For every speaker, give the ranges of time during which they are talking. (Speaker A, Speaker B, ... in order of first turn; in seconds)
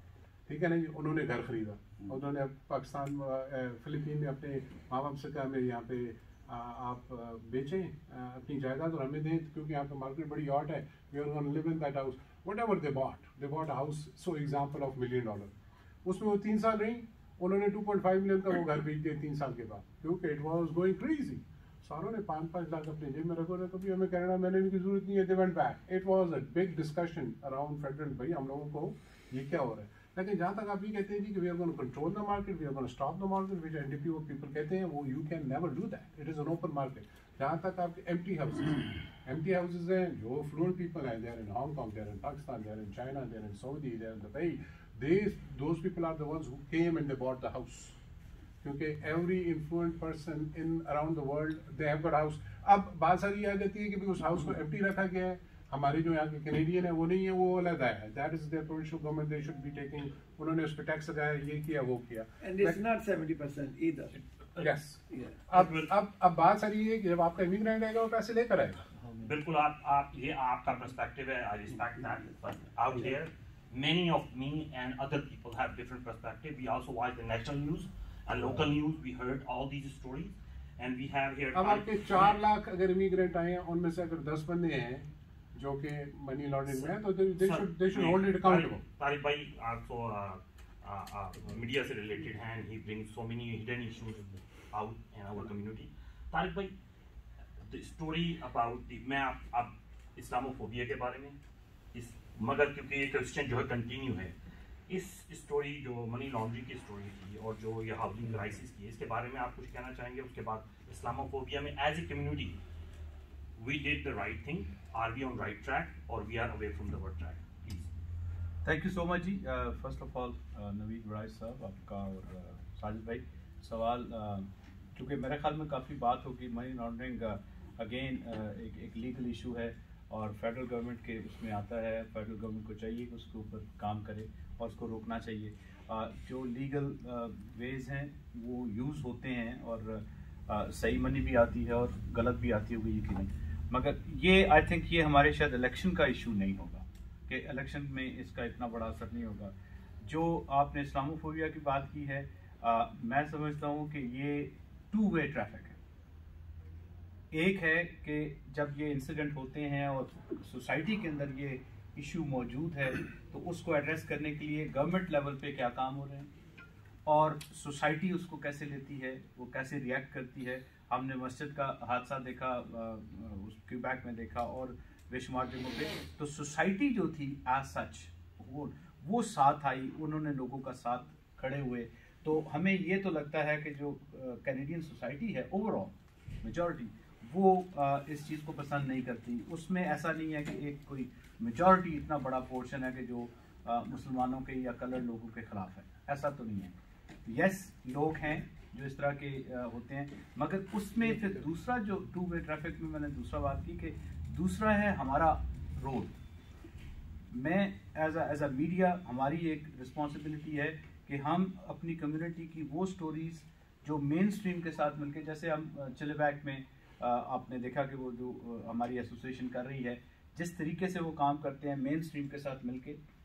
Speaker A: 0.5-15.5, 16.1-48.0, 48.6-62.8, 64.6-68.9, 81.5-88.8
Speaker B: 62.4-64.2, 65.1-65.4, 69.0-69.3
Speaker C: 65.5-65.9, 69.2-82.3, 86.7-96.7, 97.6-101.4, 101.9-104.3, 104.9-112.6, 113.6-117.9
Speaker D: 118.6-155.8, 157.3-166.3, 167.1-196.8, 197.3-206.2, 207.3-223.0